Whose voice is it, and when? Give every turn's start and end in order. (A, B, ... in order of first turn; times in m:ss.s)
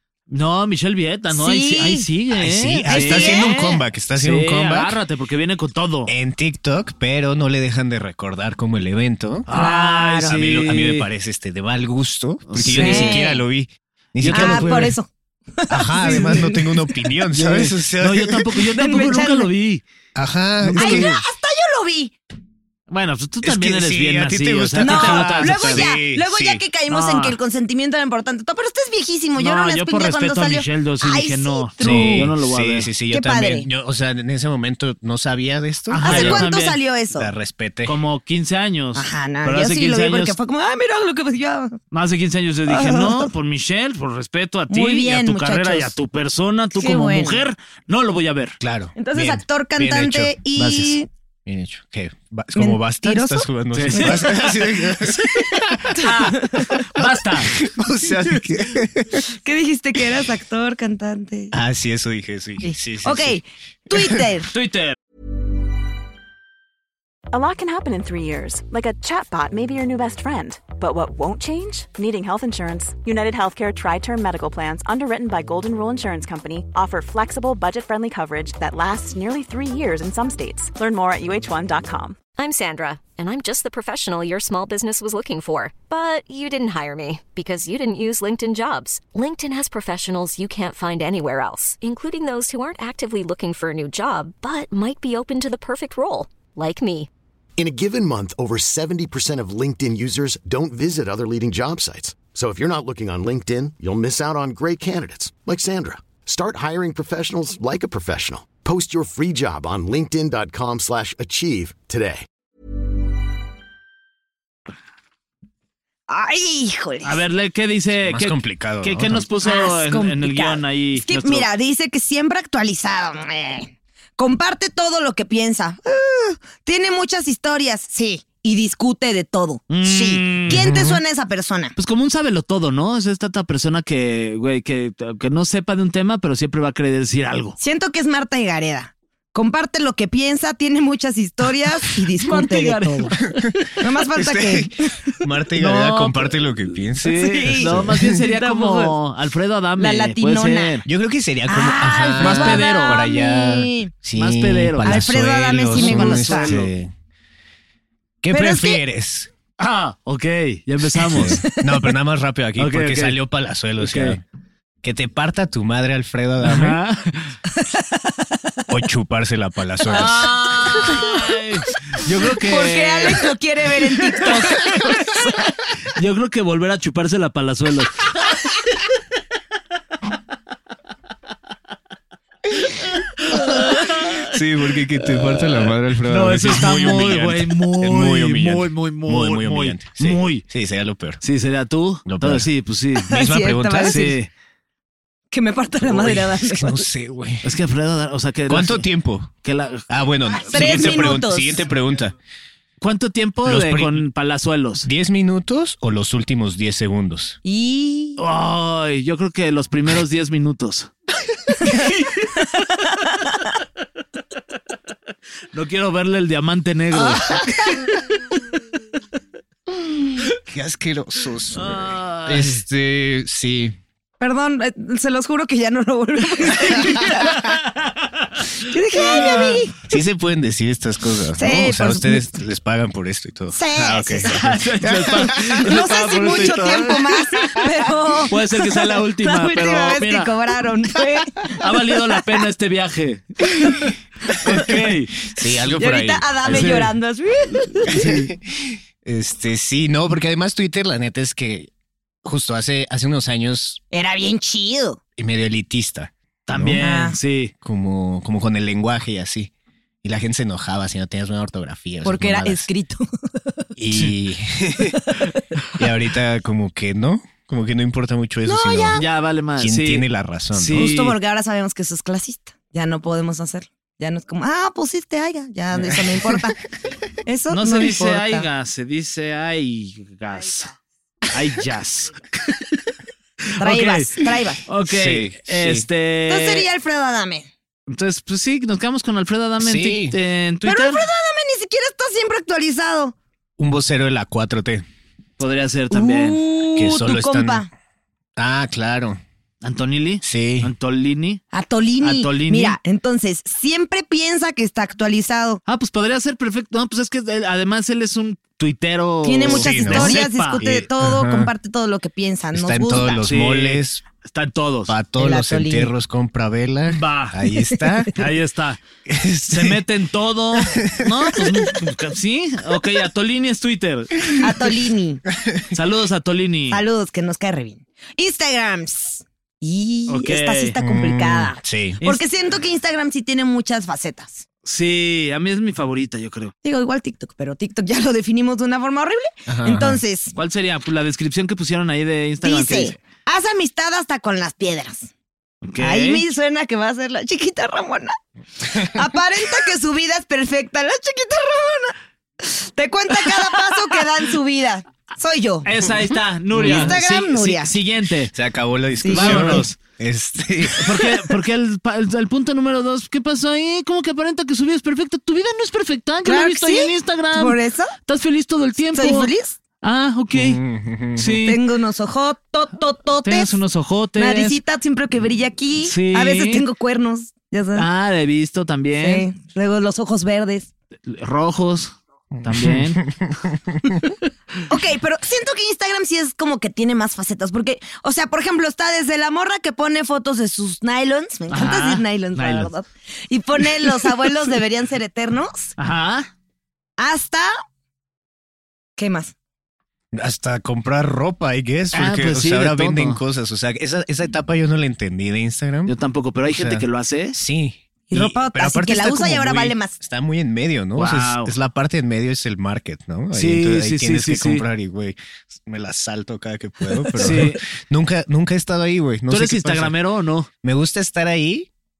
0:00.3-0:06.1 A
0:01.3-0:02.1 B
0:02.3-0:05.0 C
0:02.9-0:03.8 B
0:06.1-0:09.5 C
0:09.5-0:11.0 A
0:09.5-0:10.4 B
0:10.2-0:14.9 C
0:12.5-0:13.2 A
0:12.7-0:13.4 B
0:14.2-0:15.0 A
0:14.3-0:16.8 B
0:15.7-0:18.5 C
0:16.1-0:16.4 A
0:17.3-0:19.8 A
0:18.7-0:19.5 B
0:20.1-0:21.2 C
0:20.6-0:21.2 A
0:20.7-0:22.1 B
0:22.9-0:25.9 A
0:23.4-0:26.6 C
0:24.8-0:32.3 B
0:26.9-0:27.4 A
0:29.4-0:32.9 A
0:31.8-0:36.5 C
0:33.1-0:33.7 B
0:35.9-0:36.8 A
0:36.0-0:37.3 B
0:37.1-0:38.0 C
0:37.8-0:40.4 A
0:38.9-0:41.8 B
0:41.9-0:48.6 A
0:42.7-0:43.3 B
0:44.7-0:45.9 B
0:46.8-0:47.4 B
0:48.6-0:50.4 C
0:49.0-0:51.1 B
0:50.6-0:50.9 A
0:51.4-0:55.8 C
0:52.6-0:54.3 B
0:53.7-0:54.4 A
0:55.0-0:57.6 A
0:55.9-0:56.8 B
0:57.0-0:59.2 C
0:59.4-1:01.5 B
1:01.5-1:03.4 C
1:02.6-1:04.5 B
1:03.9-1:04.2 C
1:04.5-1:05.0 A
1:07.3-1:22.2 D
1:22.4-1:37.1 E
1:37.6-1:52.2 F
1:56.1-1:57.2 B
1:57.0-2:01.5 A
1:58.0-1:59.3 C
1:59.4-2:11.7 B
2:09.7-2:10.6 A
2:10.5-2:11.0 C
2:11.8-2:17.6 A
2:17.6-2:23.2 B
2:22.2-2:23.3 A
2:23.8-2:24.7 B
2:24.1-2:28.2 C
2:25.6-2:30.8 A
2:27.2-2:29.0 B
2:29.8-2:30.8 B
2:30.8-2:36.9 C
2:31.5-2:33.9 B
2:32.2-2:33.0 A
2:34.2-2:35.1 A
2:34.8-2:36.5 B
2:35.7-2:36.7 A
2:38.2-2:39.3 C
2:38.3-2:38.8 B
2:39.6-2:41.4 A
2:41.0-2:41.7 B
2:41.1-2:44.2 C
2:42.6-2:43.2 A
2:43.8-2:44.2 A
2:44.8-2:46.8 C
2:46.4-2:47.3 A
2:47.6-2:48.2 B
2:48.7-2:50.8 C
2:49.9-2:53.3 A
2:52.4-2:55.3 B
2:54.1-2:54.8 A
2:55.9-2:58.0 A
3:03.2-3:04.3 A
3:04.2-3:11.2 C
3:05.0-3:10.4 A
3:11.2-3:13.2 A
3:12.0-3:12.5 C
3:13.0-3:14.2 B
3:13.1-3:14.1 C
3:13.9-3:14.3 A
3:15.3-3:16.8 B
3:15.8-3:17.5 C
3:17.4-3:18.9 A
3:18.5-3:19.3 C
3:19.4-3:21.2 A
3:19.9-3:22.1 C
3:20.5-3:21.6 B
3:22.8-3:24.9 A
3:23.4-3:24.0 C
3:24.8-3:27.4 C
3:27.4-3:28.2 B
3:28.2-3:30.9 A
3:31.6-3:31.9 B
3:35.5-3:37.6 A
3:40.4-3:43.8 C
3:41.5-3:42.6 A
3:44.2-3:47.5 B
3:47.2-3:48.3 A
3:48.6-3:49.8 B
3:48.9-3:49.6 A
3:49.8-3:55.6 C
3:51.4-3:52.2 B
3:53.5-3:54.6 B
3:54.2-3:57.7 A
3:55.5-4:02.2 B
3:58.3-4:00.3 A
4:01.5-4:05.2 A
4:05.2-4:06.9 C
4:05.8-4:08.1 B
4:06.4-4:06.9 A
4:07.8-4:08.3 A
4:07.9-4:11.7 C
4:12.2-4:13.8 C
4:13.9-4:15.0 B
4:15.2-4:16.8 C
4:16.5-4:17.5 A
4:16.8-4:17.2 B
4:17.6-4:19.5 C
4:20.0-4:22.7 C
4:22.0-4:23.1 B
4:23.8-4:25.0 C
4:25.8-4:29.0 C
4:28.4-4:29.0 B
4:28.9-4:31.2 A
4:29.6-4:30.9 C
4:30.7-4:36.6 B
4:35.7-4:36.4 C
4:37.2-4:38.5 B
4:37.5-4:40.7 A
4:41.3-4:42.6 A
4:43.6-4:44.6 B
4:43.6-4:46.7 A
4:44.9-4:45.8 C
4:46.3-4:47.5 B
4:47.9-4:51.0 A
4:49.6-4:50.2 C
4:50.6-4:53.1 B
4:53.6-4:54.8 C
4:55.4-4:56.4 A
4:55.9-4:57.7 B
4:56.7-4:57.6 C
4:58.4-4:59.2 C
4:59.6-5:01.4 A
5:00.2-5:00.7 C
5:01.5-5:05.6 B
5:02.0-5:02.8 A
5:05.7-5:10.7 A
5:09.2-5:13.2 B
5:09.4-5:11.5 C
5:12.5-5:14.0 C
5:13.1-5:15.0 A
5:14.9-5:18.1 C
5:15.2-5:15.9 B
5:16.9-5:17.4 A
5:18.1-5:18.8 A
5:19.0-5:19.8 C
5:19.5-5:24.4 A
5:20.6-5:21.2 C
5:24.4-5:25.2 B
5:25.7-5:26.8 A
5:26.7-5:34.4 B
5:30.1-5:30.8 A
5:30.8-5:32.0 C
5:34.6-5:36.5 A
5:36.6-5:40.3 B
5:39.5-5:40.0 C
5:40.3-5:43.0 A
5:42.4-5:45.1 B
5:45.7-5:46.2 A
5:45.8-5:48.2 B
5:48.7-5:55.7 B
5:55.6-5:58.3 A
5:56.5-5:57.0 C
5:56.5-5:57.7 B
5:58.3-6:01.0 C
5:59.0-5:59.6 B
5:59.1-5:59.8 A
6:00.8-6:10.6 A
6:06.2-6:07.9 B
6:08.9-6:09.6 B
6:10.3-6:11.4 C
6:11.2-6:11.6 A
6:11.4-6:13.6 B
6:13.2-6:14.6 A
6:14.2-6:17.9 B
6:15.8-6:16.6 A
6:17.8-6:19.2 A
6:19.0-6:20.7 B
6:21.1-6:23.0 A
6:22.4-6:24.0 C
6:24.7-6:35.7 B
6:31.5-6:32.7 A
6:35.8-6:36.3 A
6:37.0-6:37.5 B
6:39.0-6:39.3 B
6:40.1-6:45.9 C
6:41.9-6:43.2 A
6:45.9-6:47.4 A
6:46.5-7:00.0 C
6:48.1-6:50.0 B
6:51.0-6:51.5 A
6:53.3-6:54.6 A
6:57.2-6:57.6 A
6:59.3-7:00.5 A
7:00.6-7:01.7 C